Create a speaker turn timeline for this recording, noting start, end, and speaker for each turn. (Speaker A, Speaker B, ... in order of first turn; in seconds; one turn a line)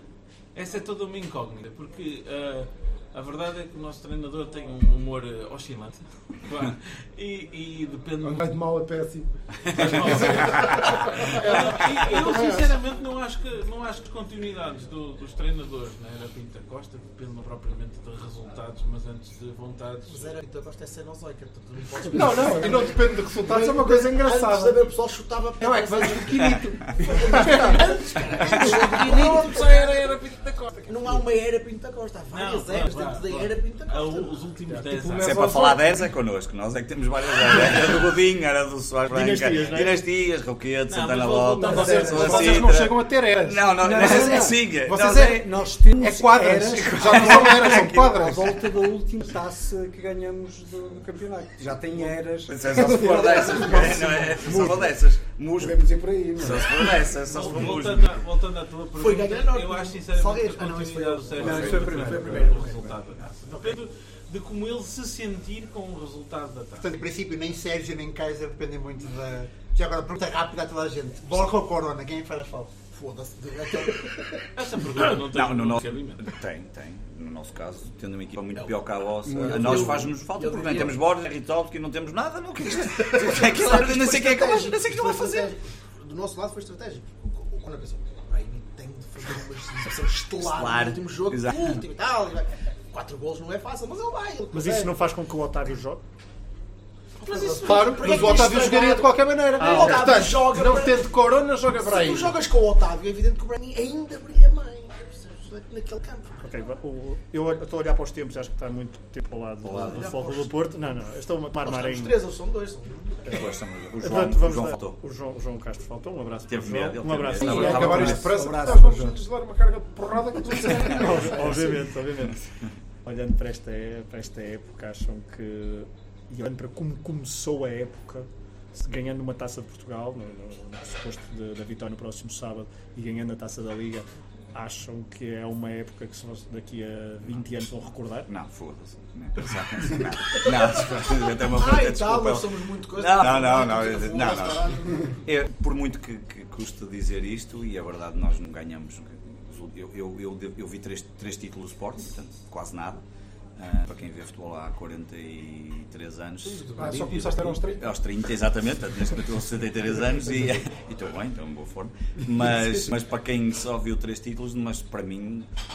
Speaker A: 0.6-8.5
Speaker B: 8.2-12.7
Speaker A: 9.7-20.4
Speaker C: 20.1-30.2
Speaker B: 22.1-24.9
Speaker B: 25.6-29.4
Speaker A: 28.8-31.1
Speaker C: 30.8-34.4
Speaker A: 32.3-35.6
Speaker B: 34.7-36.1
Speaker D: 35.2-45.3
Speaker E: 39.1-40.0
Speaker A: 40.9-42.6
Speaker B: 41.6-48.6
Speaker F: 41.9-42.6
Speaker F: 43.8-55.0
Speaker D: 47.0-48.0
Speaker D: 52.4-58.2
Speaker F: 55.6-57.1
Speaker A: 57.3-66.9
Speaker C: 59.0-63.8
Speaker F: 61.4-62.7
Speaker G: 66.8-72.8
Speaker C: 72.9-74.3
Speaker A: 74.6-76.3
Speaker D: 75.2-85.5
Speaker C: 78.5-81.0
Speaker F: 79.2-80.2
Speaker C: 82.8-95.0
Speaker D: 90.4-91.8
Speaker E: 94.5-96.0
Speaker C: 97.2-101.1
Speaker A: 97.2-98.4
Speaker B: 97.5-102.4
Speaker E: 99.6-100.1
Speaker C: 101.7-106.4
Speaker E: 106.4-112.2
Speaker D: 109.6-110.0
Speaker C: 109.8-110.6
Speaker C: 111.6-113.4
Speaker D: 113.3-115.0
Speaker E: 114.0-118.1
Speaker D: 116.5-118.5
Speaker B: 117.4-121.9
Speaker F: 117.4-119.2
Speaker E: 120.8-122.4
Speaker E: 123.0-138.3
Speaker D: 138.3-144.7
Speaker C: 140.4-145.2
Speaker D: 145.2-153.0
Speaker D: 153.6-156.7
Speaker A: 156.5-157.6
Speaker C: 156.7-157.2
Speaker B: 156.8-157.9
Speaker D: 157.8-165.5